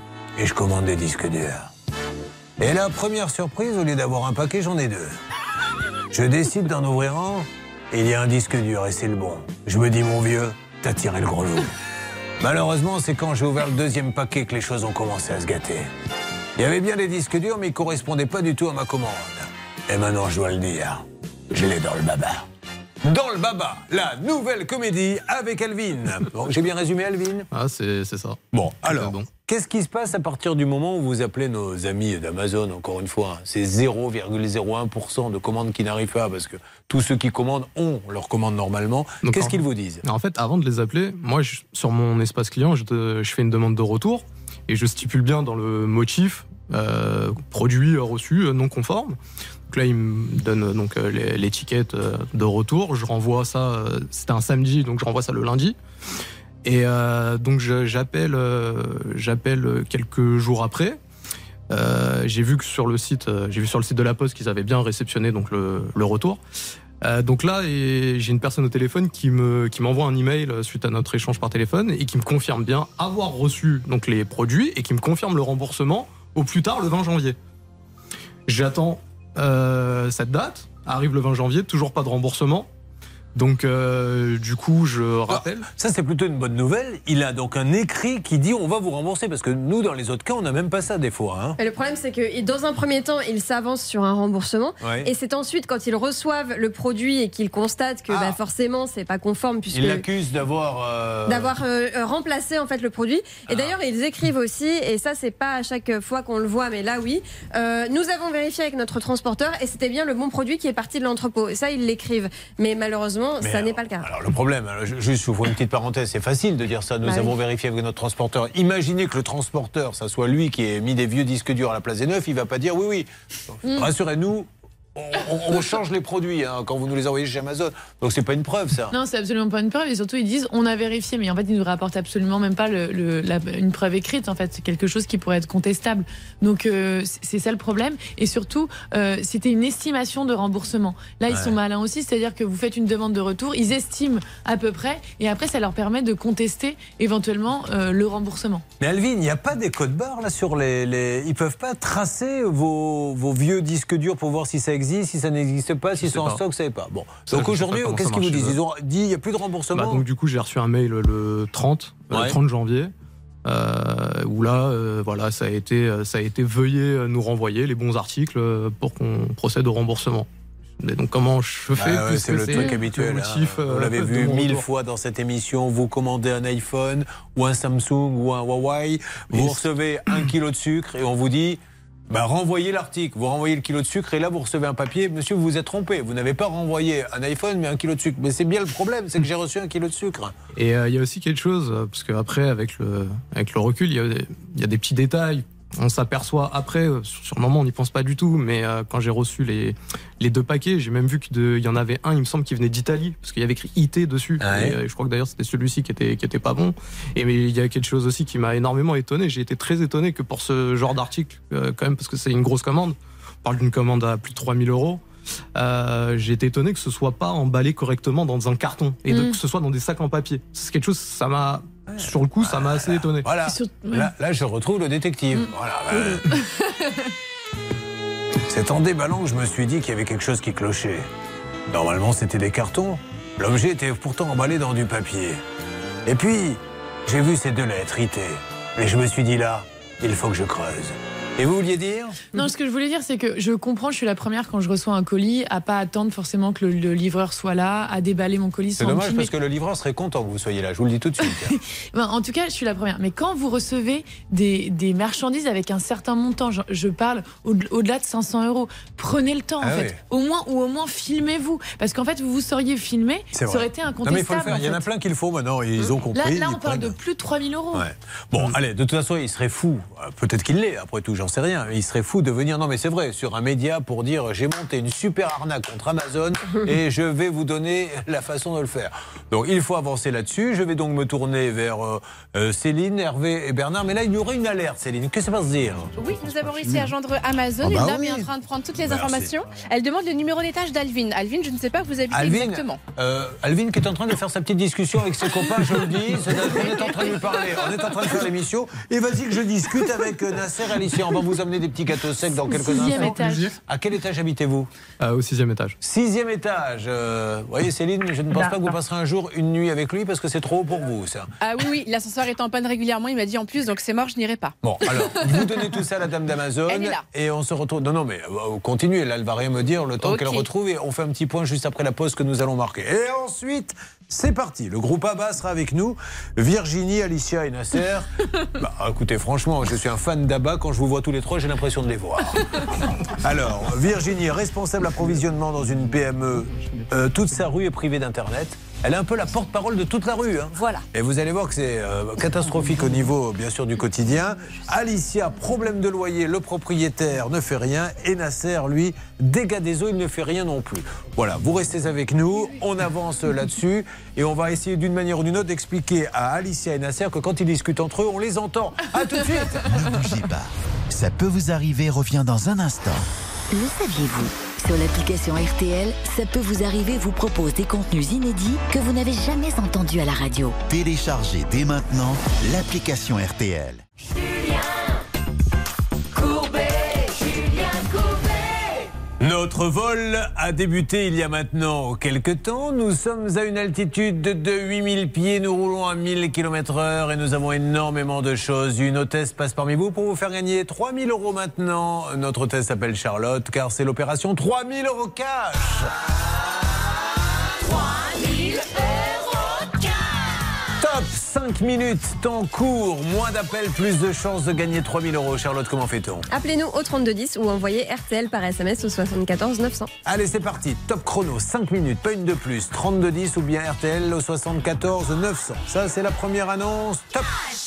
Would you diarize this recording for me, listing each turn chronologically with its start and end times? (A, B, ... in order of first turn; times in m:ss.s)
0:00.4-0:01.7 A
0:02.6-0:05.1 A
0:06.1-0:11.7 A
0:12.4-0:15.9 A
0:16.6-0:22.5 A
0:23.0-0:27.5 A
0:27.5-0:29.3 B
0:28.5-0:40.0 A
0:39.2-0:49.2 B
0:49.7-0:55.8 B
0:56.6-1:01.0 B
1:01.7-1:06.4 B
1:07.0-1:17.4 B
1:18.5-1:22.7 B
1:23.4-1:25.7 B
1:25.3-1:31.6 A
1:31.6-1:40.0 C
1:34.8-1:35.1 A
1:38.1-1:38.4 A
1:39.7-1:41.5 A
1:41.3-1:54.1 C
1:43.5-1:43.8 A
1:53.4-2:08.9 A
1:57.0-1:57.3 C
2:08.9-2:28.6 D
2:21.3-2:21.6 A
2:28.8-2:40.0 A
2:36.0-2:36.4 B
2:37.3-2:38.6 B
2:39.7-2:42.9 B
2:42.1-2:42.4 A
2:43.4-2:50.3 B
2:50.8-2:54.7 B
2:51.7-3:10.3 A
2:59.3-2:59.6 B
3:10.6-3:35.0 B
3:24.4-3:24.8 A
3:35.6-3:43.3 B
3:41.9-3:46.4 A
3:43.4-3:44.1 D
3:46.1-3:46.8 D
3:48.5-3:51.1 A
3:51.7-3:55.4 A
3:56.1-4:02.3 A
4:02.3-4:09.3 D
4:08.8-4:11.6 A
4:11.4-4:24.8 D
4:19.6-4:20.0 A
4:23.3-4:27.0 A
4:26.1-4:27.9 D
4:27.7-4:46.9 A
4:46.0-4:52.8 E
4:47.6-4:48.3 A
4:48.8-4:49.3 A
4:52.1-5:04.7 A
5:02.5-5:03.6 D
5:05.0-5:05.8 B
5:05.8-5:11.3 A
5:11.4-5:14.6 E
5:14.6-5:32.5 A
5:16.7-5:17.0 E
5:20.0-5:20.5 E
5:33.2-5:59.7 A
5:36.6-5:36.9 B
5:59.7-6:03.1 F
6:03.6-6:10.5 G
6:10.7-6:13.8 F
6:14.0-6:15.0 H
6:16.1-6:18.9 H
6:19.2-6:35.9 A
6:37.6-6:40.6 H
6:40.8-6:46.3 A
6:46.3-6:49.9 C
6:50.0-6:57.3 A